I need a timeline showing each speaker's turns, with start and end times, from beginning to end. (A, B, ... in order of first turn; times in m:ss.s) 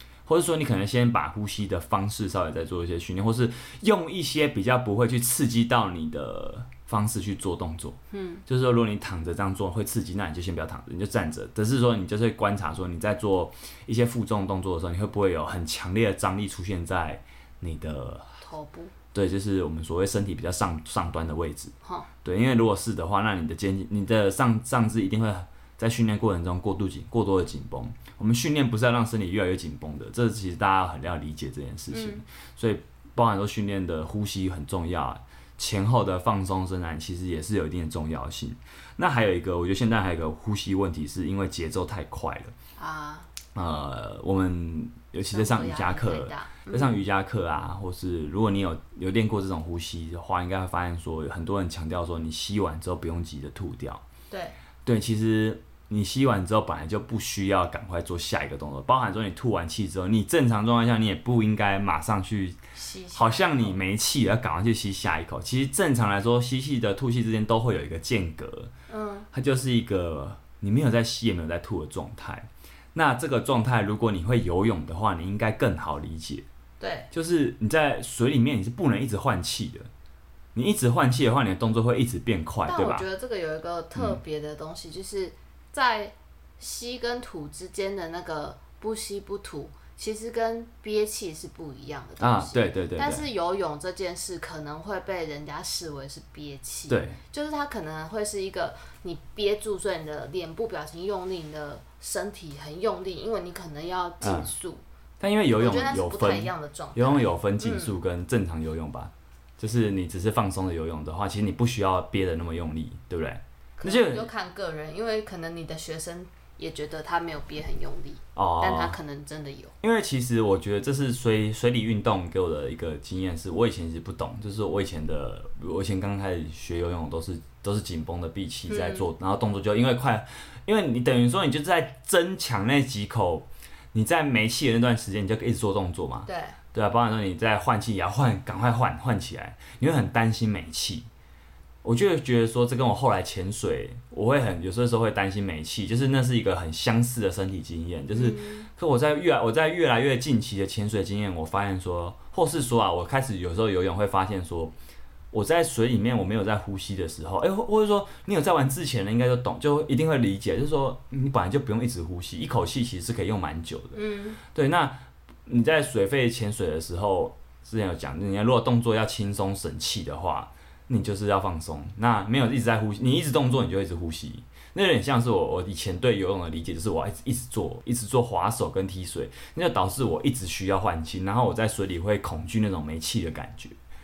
0:00.2-0:18.4 A
0:08.1-0:08.4 B
0:18.4-0:18.9 B
0:19.1-0:21.7 A
0:22.2-0:42.5 A
0:31.9-0:32.2 B
0:42.8-0:43.3 B
0:43.5-0:54.0 A
0:45.2-0:47.0 B
0:54.3-0:54.5 B
0:54.8-1:02.6 A
1:02.7-1:03.8 B
1:03.1-1:08.7 A
1:08.9-1:09.3 B
1:09.3-1:16.4 A
1:16.8-1:17.1 B
1:17.1-1:19.9 A
1:20.5-1:23.0 A
1:22.6-1:44.8 B
1:32.2-1:33.2 A
1:36.9-1:37.2 A
1:44.2-1:44.5 A
1:45.2-1:54.3 A
1:45.6-1:47.9 B
1:53.8-1:59.7 B
1:58.3-1:59.0 A
1:59.8-2:21.1 A
2:08.7-2:09.1 B
2:16.2-2:16.6 B
2:21.8-2:34.7 A
2:28.1-2:28.7 B
2:35.3-3:03.8 A
2:43.9-2:44.4 B